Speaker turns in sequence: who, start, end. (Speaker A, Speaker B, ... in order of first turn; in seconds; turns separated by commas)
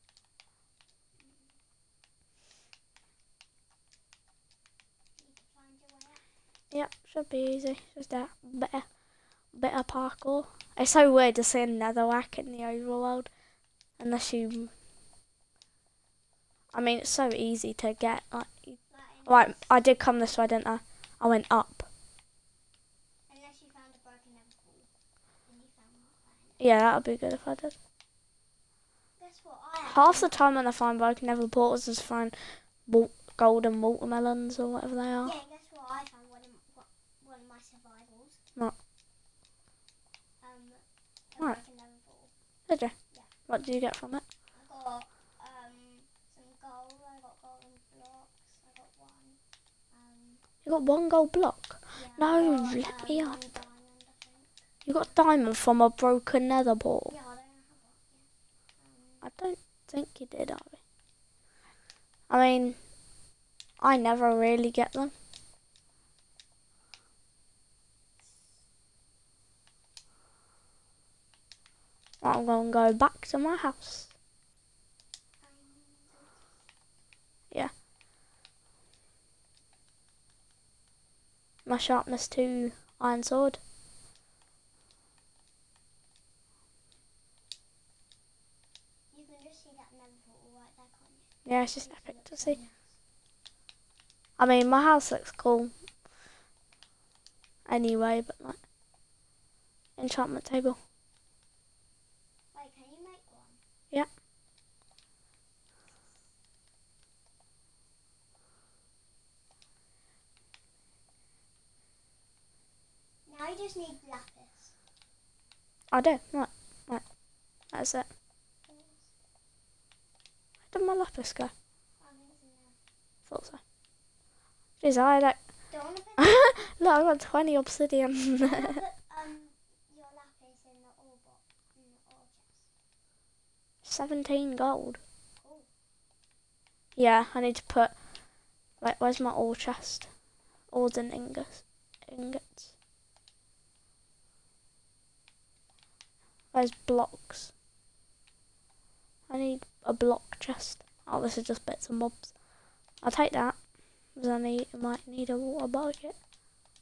Speaker A: 1.1-1.6, Speaker A: 5.2-6.2, Speaker B: 6.7-8.9, Speaker B: 9.5-13.3, Speaker B: 14.0-14.7, Speaker B: 16.7-21.9, Speaker A: 18.9-20.1, Speaker A: 23.3-24.9, Speaker A: 25.4-26.8, Speaker B: 26.6-27.8, Speaker A: 29.2-30.4, Speaker B: 29.9-35.3, Speaker A: 35.2-38.4, Speaker A: 40.4-42.3, Speaker B: 42.7-42.9, Speaker B: 43.5-44.2, Speaker A: 44.5-49.4, Speaker A: 49.9-50.4, Speaker B: 50.6-53.4, Speaker A: 51.9-54.6, Speaker B: 54.9-57.1, Speaker A: 57.0-59.3, Speaker B: 59.2-60.8, Speaker B: 62.3-62.8, Speaker B: 63.8-65.1, Speaker B: 72.2-74.1, Speaker A: 75.4-76.7, Speaker B: 81.7-83.6, Speaker A: 89.1-93.0, Speaker B: 91.5-92.6, Speaker B: 94.4-95.7, Speaker B: 97.7-98.6, Speaker B: 100.0-100.8, Speaker A: 102.5-103.6, Speaker A: 113.2-114.8, Speaker B: 115.9-117.0, Speaker B: 117.7-118.1, Speaker A: 118.6-119.1, Speaker B: 120.7-121.5, Speaker A: 122.0-122.8, Speaker B: 123.3-123.6, Speaker B: 124.8-125.4, Speaker A: 125.7-126.4, Speaker B: 126.2-128.8, Speaker A: 128.4-132.7, Speaker B: 133.8-135.0, Speaker A: 135.4-135.7, Speaker B: 136.9-137.9, Speaker B: 138.8-140.1, Speaker B: 140.7-142.7, Speaker B: 146.5-147.5, Speaker B: 149.3-152.3, Speaker B: 153.0-153.6, Speaker B: 154.1-156.2